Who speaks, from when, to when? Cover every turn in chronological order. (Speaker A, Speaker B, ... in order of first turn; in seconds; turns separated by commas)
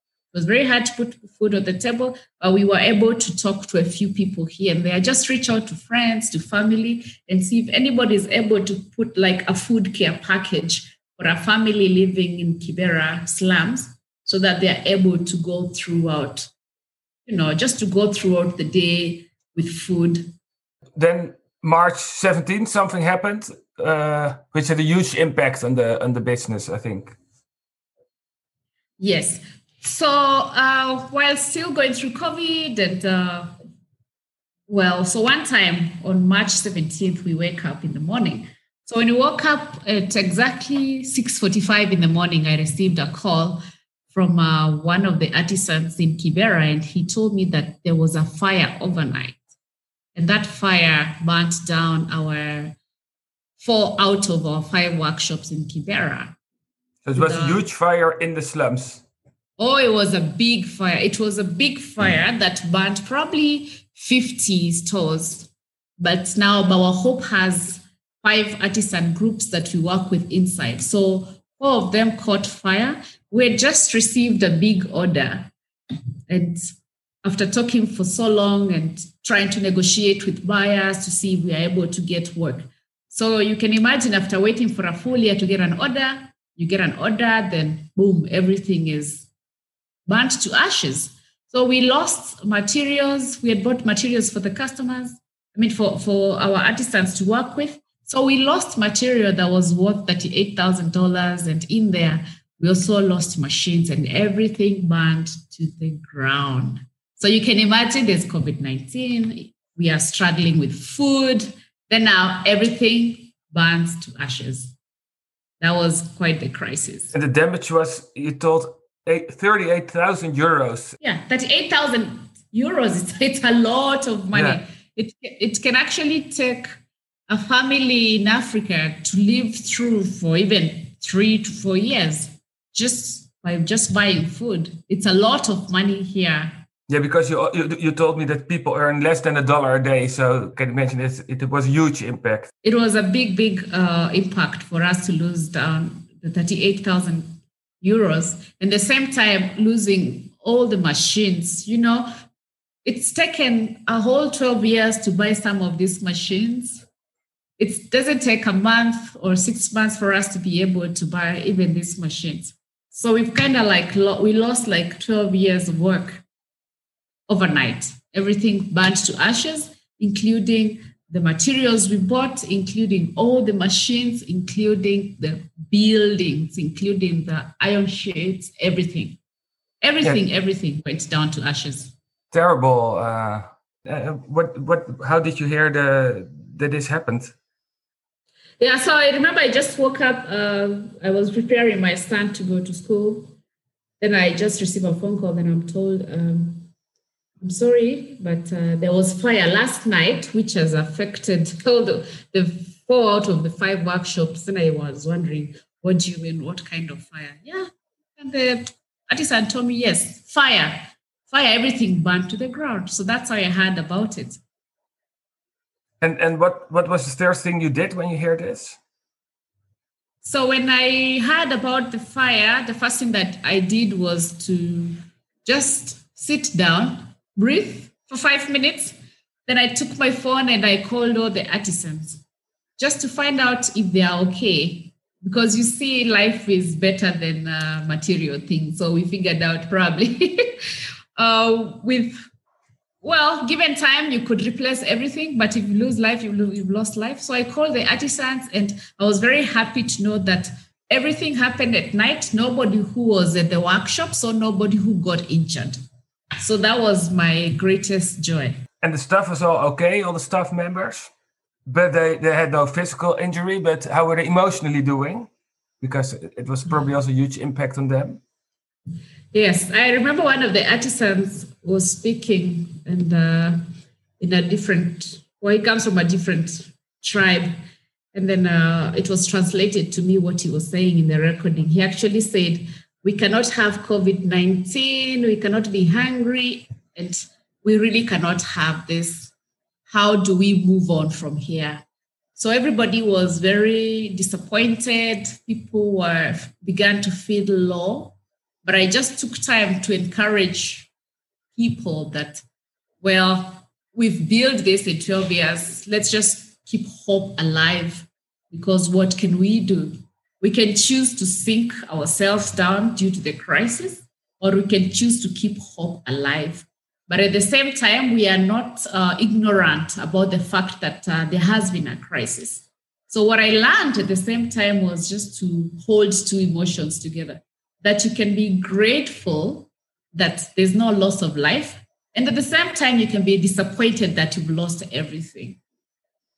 Speaker A: 0.3-16.5, Speaker A: 17.2-20.3, Speaker B: 20.9-27.1, Speaker A: 29.0-33.5, Speaker A: 34.7-49.5, Speaker A: 50.1-52.8, Speaker A: 53.6-56.4, Speaker B: 57.0-59.0, Speaker A: 57.1-57.6, Speaker A: 59.6-75.5, Speaker A: 76.3-76.7, Speaker A: 77.2-89.3, Speaker A: 90.0-114.7, Speaker A: 115.6-117.1, Speaker B: 117.1-120.9, Speaker A: 121.0-126.7, Speaker B: 124.3-124.6, Speaker A: 127.3-136.6, Speaker B: 136.9-142.5, Speaker A: 142.6-152.1, Speaker A: 152.8-156.8, Speaker A: 157.6-166.2, Speaker A: 167.3-179.2, Speaker A: 179.8-181.9, Speaker B: 182.3-187.3, Speaker A: 188.6-193.3, Speaker A: 194.0-196.7, Speaker A: 197.4-214.4, Speaker B: 216.0-218.8, Speaker A: 220.2-228.9, Speaker A: 229.4-232.2, Speaker A: 232.8-240.6, Speaker A: 241.2-242.1, Speaker A: 243.0-255.8, Speaker A: 256.4-258.5, Speaker B: 258.8-261.1, Speaker B: 261.7-265.3, Speaker B: 265.8-268.2, Speaker A: 269.3-273.6, Speaker A: 274.2-277.5, Speaker A: 278.1-289.3, Speaker A: 289.9-291.8, Speaker A: 292.3-300.9, Speaker A: 301.5-302.4, Speaker A: 303.0-335.6